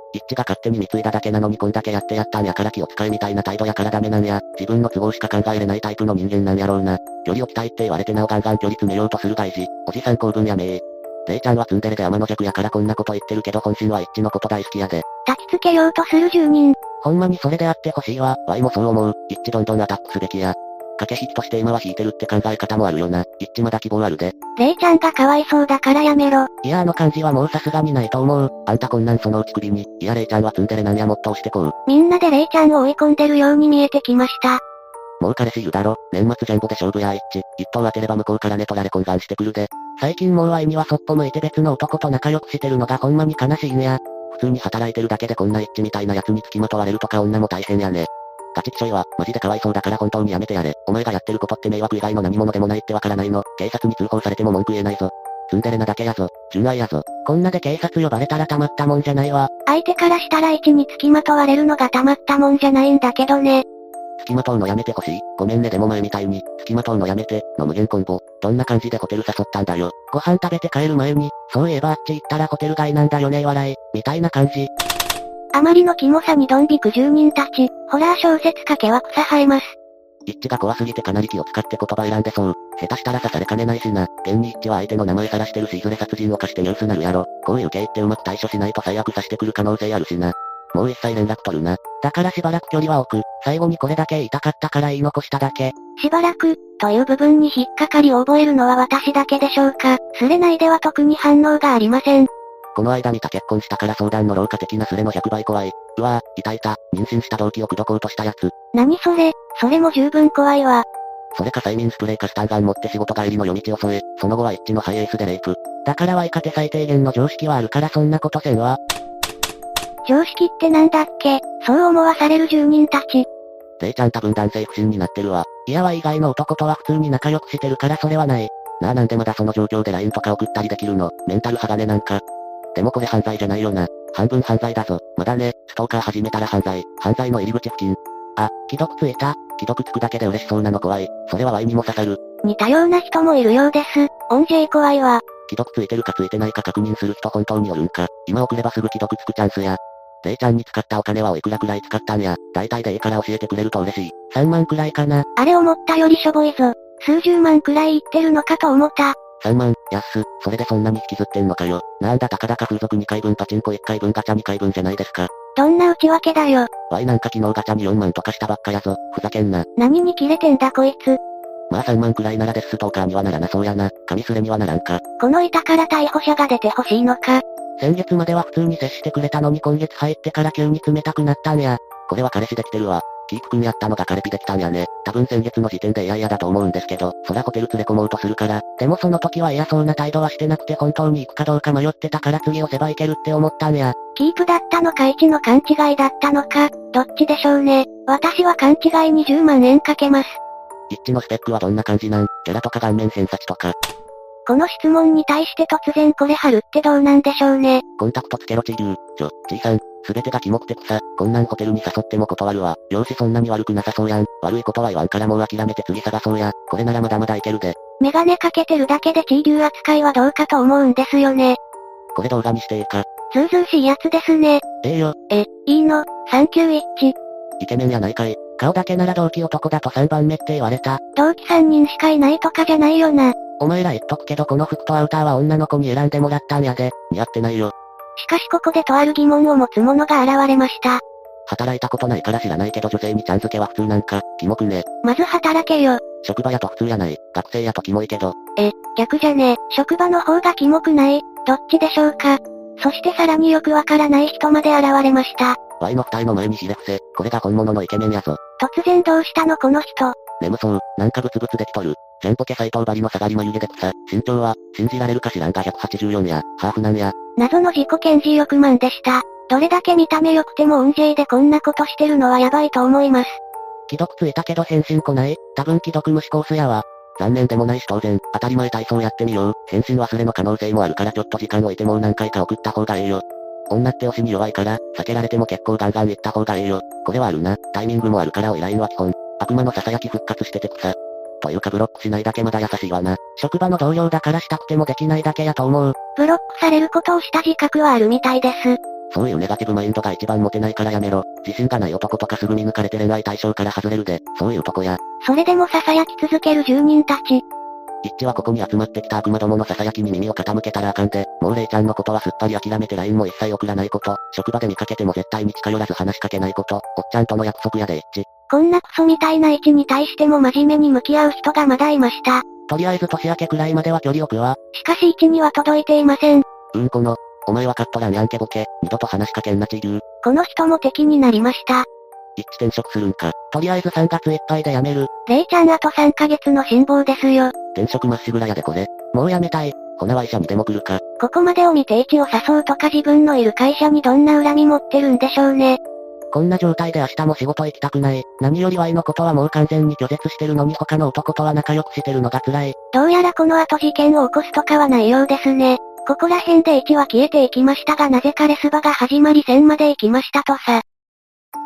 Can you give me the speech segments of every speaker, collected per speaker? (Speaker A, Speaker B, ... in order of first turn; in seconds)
Speaker A: 0.1-15.1, 17.0-24.3, 26.6-31.8, 35.2-59.5, 64.2-74.7, 80.3-95.8, 102.8-108.5, 111.3-118.8, 123.8-132.2, 132.8-142.2, 145.5-155.3, 159.4-165.3, 166.9-169.7, 171.7-175.0, 177.8-193.9, 200.9-203.8, 208.0-217.8, 222.2-223.1, 224.8-225.2, 227.6-231.0, 233.6-237.7, 241.5-244.9, 246.2-248.4, 255.8-258.4, 260.4-267.1, 273.9-296.0, 299.1-305.0, 308.0-318.3, 322.7-324.6, 326.7-330.0, 332.4-335.1, 337.8-341.0, 346.3-352.8
Speaker B: 15.3-16.8, 24.6-26.5, 31.9-34.6, 59.7-63.6, 75.5-79.8, 96.0-102.3, 108.7-110.8, 120.1-123.3, 142.4-145.2, 155.4-159.2, 165.6-166.7, 169.8-171.2, 175.2-177.4, 194.2-200.4, 204.5-207.8, 218.0-221.6, 223.3-224.6, 225.3-227.2, 231.2-233.4, 238.2-241.0, 245.0-246.0, 248.6-255.6, 258.6-260.2, 267.4-273.4, 296.2-298.8, 305.2-307.4, 318.5-322.5, 324.7-326.5, 330.2-331.9, 335.3-337.5, 341.2-345.8, 352.9-360.8